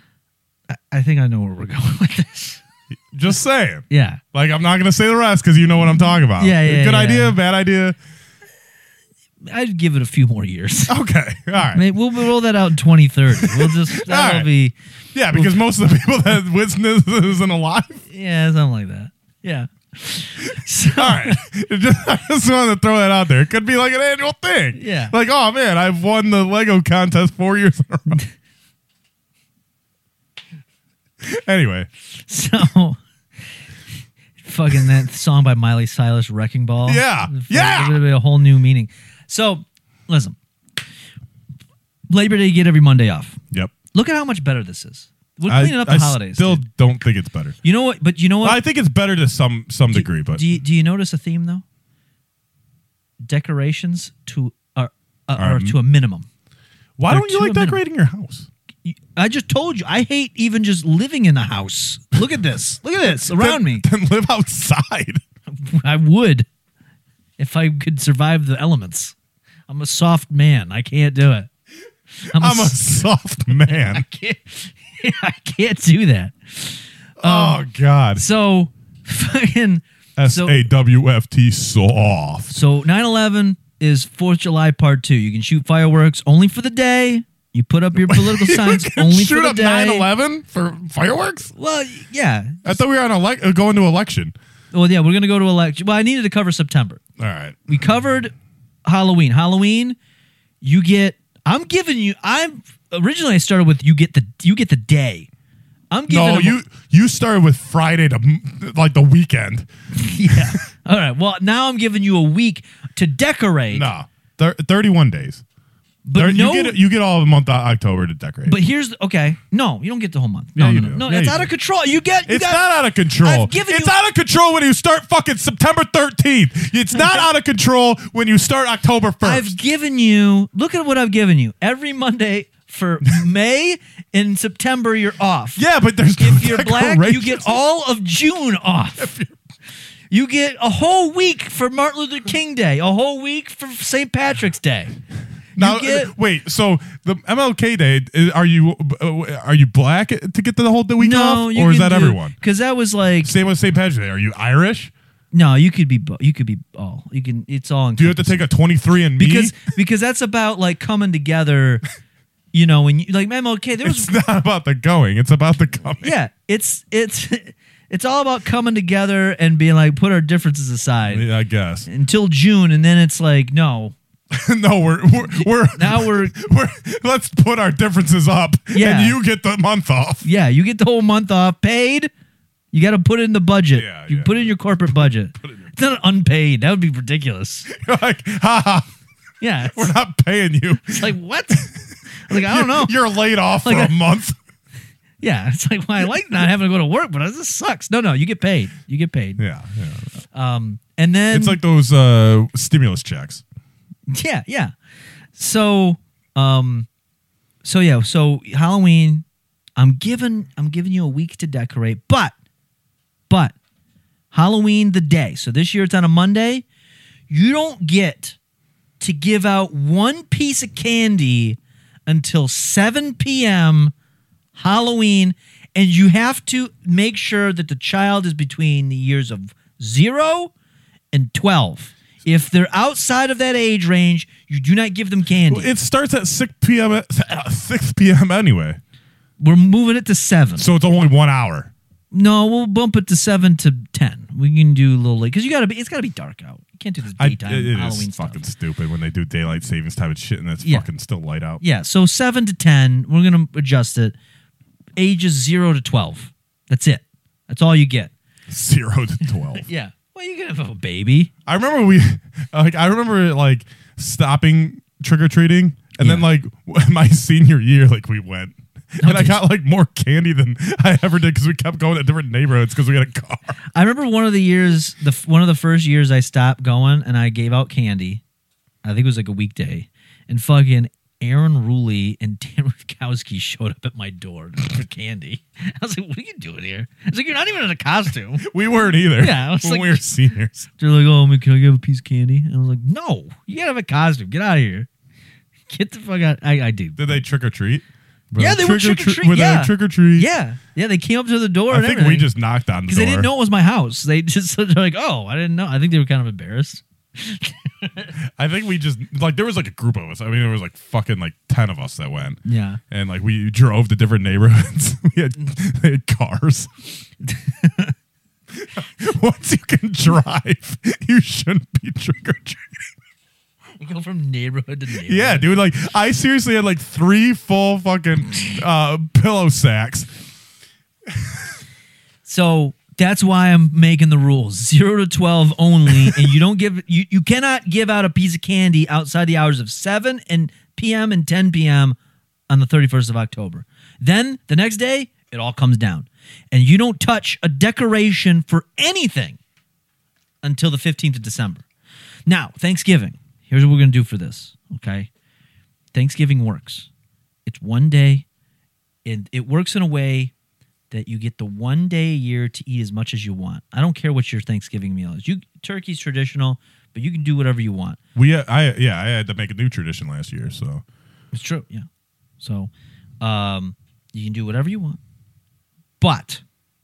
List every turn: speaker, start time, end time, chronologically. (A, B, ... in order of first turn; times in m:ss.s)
0:00.7-0:02.6 A
0:03.1-0:08.0 B
0:03.9-0:04.2 A
0:06.4-0:07.4 A
0:09.4-0:10.9 A
0:10.9-0:11.8 B
0:11.6-0:14.8 A
0:13.4-0:14.5 B
0:15.1-0:18.0 B
0:15.3-0:15.6 A
0:18.1-0:21.4 A
0:20.9-0:28.2 B
0:24.8-0:25.1 A
0:31.2-0:31.9 B
0:32.1-0:33.0 A
0:34.4-0:40.4 A
0:36.8-0:38.0 B
0:42.1-0:43.4 A
0:43.9-0:46.6 A
0:45.5-0:47.6 B
0:47.6-0:48.6 A
0:48.4-0:50.4 B
0:49.9-0:51.6 A
0:53.2-0:56.3 A
0:55.4-0:55.8 B
0:57.0-0:58.5 B
0:57.1-0:57.8 A
0:58.8-1:03.8 A
1:03.3-1:05.2 B
1:05.5-1:06.4 A
1:07.4-1:09.2 A
1:09.7-1:11.5 A
1:12.2-1:12.8 A
1:12.3-1:14.0 B
1:13.5-1:17.6 A
1:17.2-1:18.2 B
1:18.1-1:20.5 A
1:20.2-1:22.5 B
1:22.5-1:30.1 A
1:28.0-1:31.5 B
1:31.6-1:32.8 A
1:32.6-1:34.3 B
1:34.7-1:37.0 A
1:37.2-1:37.6 B
1:37.7-1:38.3 A
1:38.8-1:40.0 A
1:40.6-1:45.3 A
1:45.9-1:46.6 A
1:46.1-1:49.7 B
1:49.9-1:53.9 A
1:50.3-1:50.6 B
1:53.7-1:55.4 B
1:56.0-1:56.8 A
1:56.2-1:58.6 B
1:58.4-2:02.6 A
2:00.6-2:01.5 B
2:02.2-2:09.5 B
2:03.2-2:03.9 A
2:07.0-2:07.2 A
2:09.2-2:15.6 A
2:15.6-2:17.6 B
2:16.2-2:19.1 A
2:19.0-2:19.3 B
2:20.1-2:24.9 A
2:25.6-2:32.3 B
2:25.6-2:26.1 A
2:31.0-2:33.3 A
2:33.2-2:34.9 B
2:35.3-2:38.4 A
2:38.0-2:39.6 B
2:39.2-2:41.8 A
2:42.5-2:44.1 A
2:43.8-2:46.1 B
2:46.0-2:51.2 A
2:51.1-2:51.9 B
2:51.9-2:53.9 A
2:54.3-3:00.3 B
2:55.4-2:56.3 A
2:58.7-2:59.2 A
3:00.2-3:02.1 A
3:02.7-3:07.7 A
3:03.7-3:05.7 B
3:07.7-3:08.9 B
3:09.4-3:09.9 A
3:09.7-3:11.1 B
3:10.8-3:11.7 A
3:12.3-3:12.9 A
3:12.3-3:14.4 B
3:13.6-3:13.9 A
3:15.2-3:19.4 A
3:19.4-3:20.1 B
3:20.3-3:21.6 A
3:21.3-3:23.4 B
3:24.1-3:24.7 A
3:25.3-3:26.9 A
3:27.6-3:29.2 A
3:29.8-3:32.3 A
3:33.3-3:33.5 A
3:34.3-3:36.6 A
3:37.3-3:38.4 A
3:39.0-3:43.9 A
3:44.5-3:50.5 A
3:51.1-3:55.7 A
3:55.5-3:58.8 B
3:59.4-4:00.6 A
4:00.6-4:01.7 B
4:02.1-4:08.4 A
4:07.2-4:11.6 B
4:11.6-4:14.1 A
4:15.0-4:18.1 A
4:18.5-4:19.6 B
4:19.5-4:21.3 A
4:21.4-4:33.6 B
4:26.0-4:26.2 A
4:29.0-4:29.4 A
4:33.7-4:38.2 A
4:38.8-4:48.4 A
4:48.4-4:50.7 B
4:49.2-4:50.0 A
4:50.8-4:54.9 A
4:55.7-4:57.2 A
4:57.0-4:57.8 B
4:58.3-5:02.3 A
4:58.4-5:00.3 B
5:01.7-5:03.3 B
5:02.9-5:08.1 A
5:08.4-5:16.8 B
5:12.4-5:12.8 A
5:17.2-5:17.9 A
5:18.6-5:22.7 B
5:23.8-5:25.5 A
5:25.0-5:30.1 B
5:32.2-5:42.0 A
5:42.5-5:49.4 A
5:50.4-5:51.6 A
5:52.2-5:55.1 A
5:55.9-5:56.9 A
5:57.4-5:58.2 A
5:59.0-6:00.3 A
6:00.9-6:08.0 A
6:08.1-6:10.8 B
6:11.3-6:11.9 A
6:12.4-6:12.7 A
6:13.2-6:15.0 A
6:16.0-6:16.4 A